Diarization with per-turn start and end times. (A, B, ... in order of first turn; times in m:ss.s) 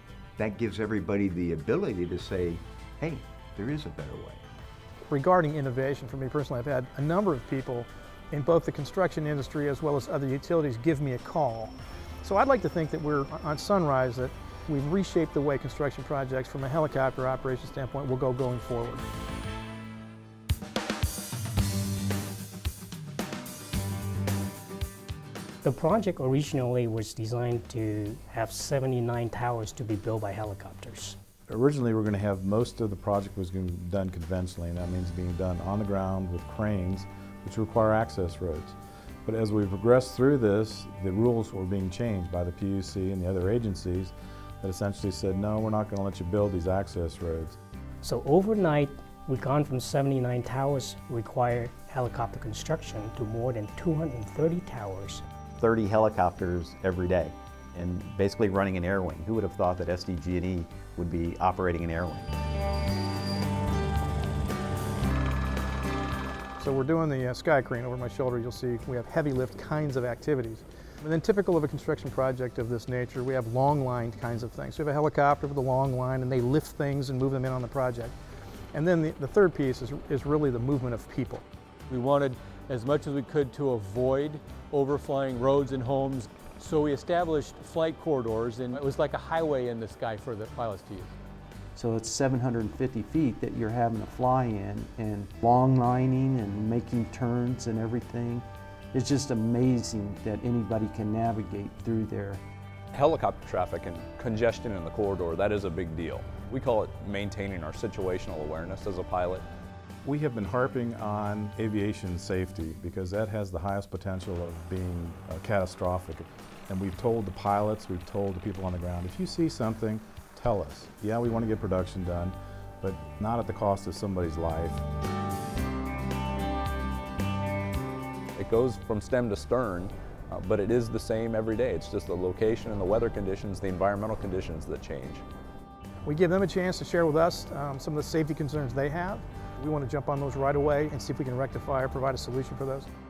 0:00.4-0:04.4 A
0:05.0-0:19.0 B
0:25.6-0:31.2 C
0:31.5-0:47.6 D
0:48.0-0:55.2 C
0:55.6-1:02.3 E
1:06.6-1:18.1 B
1:18.7-1:21.4 B
1:21.9-1:31.1 F
1:31.8-1:42.4 G
1:42.9-1:49.5 H
1:50.0-2:04.8 D
2:08.4-2:15.2 H
2:16.0-2:22.9 B